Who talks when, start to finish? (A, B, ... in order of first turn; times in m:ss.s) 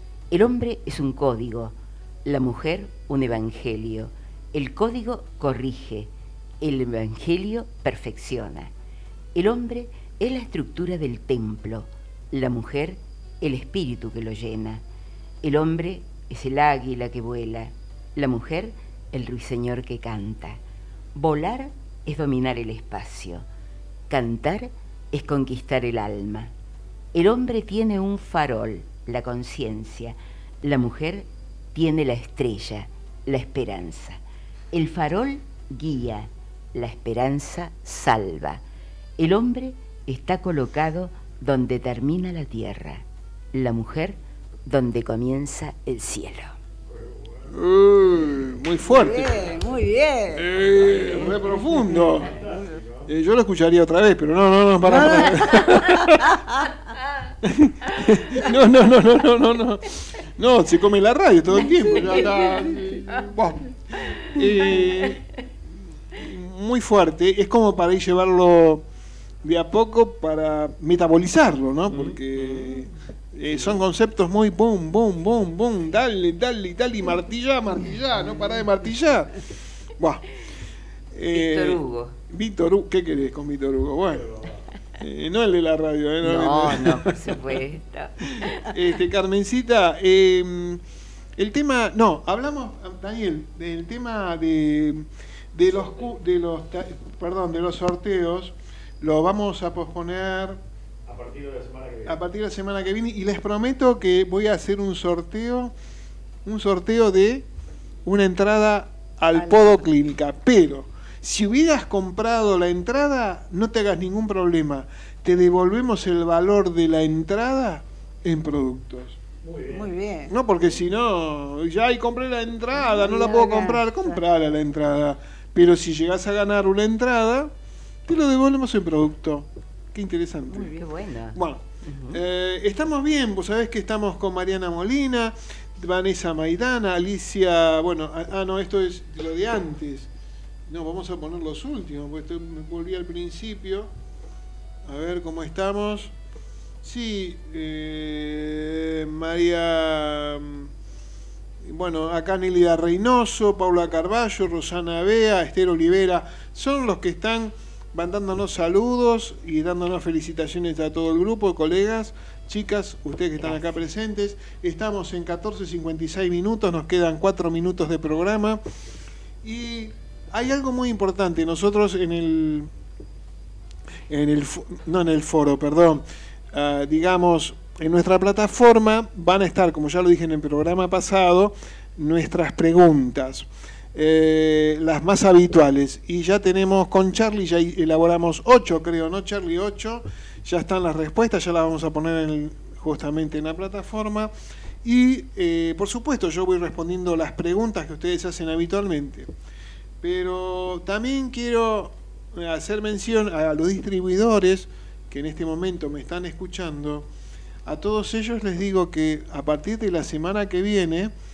0:00.3-0:08.7 A
0:09.4-0:14.8 A
0:15.4-0:20.6 A
0:21.2-0:23.5 A
0:24.1-0:26.5 A
0:27.1-0:34.2 A
0:34.7-0:38.6 A
0:39.2-0:46.5 A
0:46.9-0:47.5 B
0:47.5-0:49.3 C
0:48.9-0:50.5 D
0:50.4-0:52.4 C
0:50.6-0:53.1 B
0:53.1-0:56.4 C
0:54.8-0:56.7 D
0:57.4-1:03.7 C
1:02.0-1:02.4 A
1:04.2-1:04.9 A
1:04.3-1:05.2 C
1:06.1-1:08.8 C
1:09.4-1:19.4 C
1:12.4-1:12.8 A
1:20.0-1:20.3 C
1:21.1-1:24.3 C
1:21.3-1:22.2 A
1:24.2-1:24.5 B
1:25.0-1:27.4 C
1:26.2-1:28.8 A
1:28.4-1:30.8 C
1:31.4-1:40.6 C
1:41.1-1:42.2 B
1:42.0-1:45.7 C
1:46.4-1:47.5 C
1:48.0-1:59.2 C
1:59.4-1:59.9 B
1:59.7-2:00.3 D
2:00.3-2:07.5 C
2:02.8-2:04.2 D
2:08.1-2:10.8 C
2:10.5-2:12.2 A
2:11.3-2:20.1 C
2:20.7-2:23.9 C
2:24.8-2:26.1 C
2:26.8-2:30.7 C
2:31.6-2:48.6 C
2:49.4-2:52.7 C
2:54.1-3:14.3 C
3:14.8-3:19.3 C
3:20.0-3:27.1 C
3:27.7-3:31.1 C